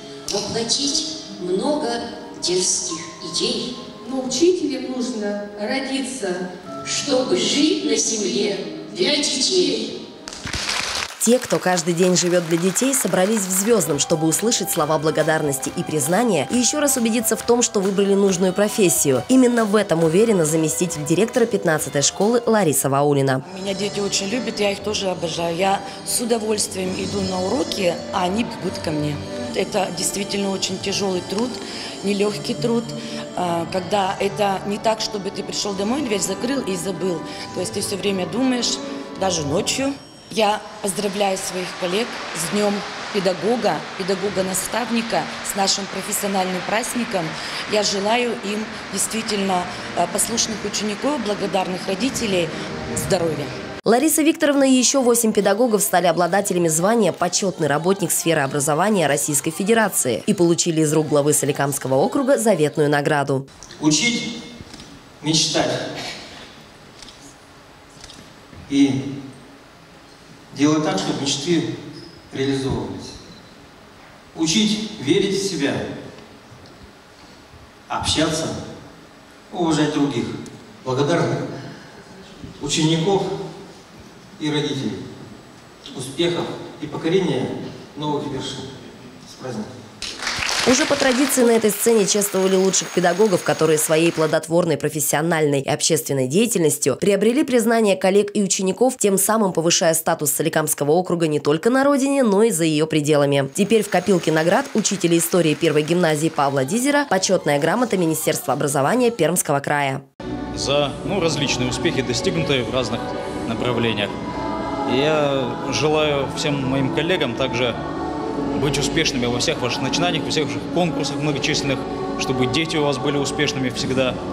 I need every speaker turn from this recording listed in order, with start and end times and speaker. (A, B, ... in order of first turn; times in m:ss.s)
0:00.3-0:03.7 A
0:04.0-0:06.4 B
0:06.8-0:10.0 A
0:07.2-0:09.8 B
0:11.2-0:23.4 C
0:23.4-0:53.5 D
0:53.8-1:03.5 C
1:03.8-1:04.3 E
1:05.2-1:05.8 E
1:08.7-1:09.0 E
1:10.5-1:11.7 E
1:12.3-1:13.2 E
1:14.3-1:15.9 E
1:17.9-1:18.6 E
1:19.5-1:21.4 E
1:22.6-1:23.3 E
1:24.4-1:25.0 E
1:25.9-1:28.7 E
1:29.3-1:29.7 E
1:30.7-1:50.0 C
1:50.5-1:54.1 F
1:54.9-1:57.8 F
1:58.5-2:04.2 F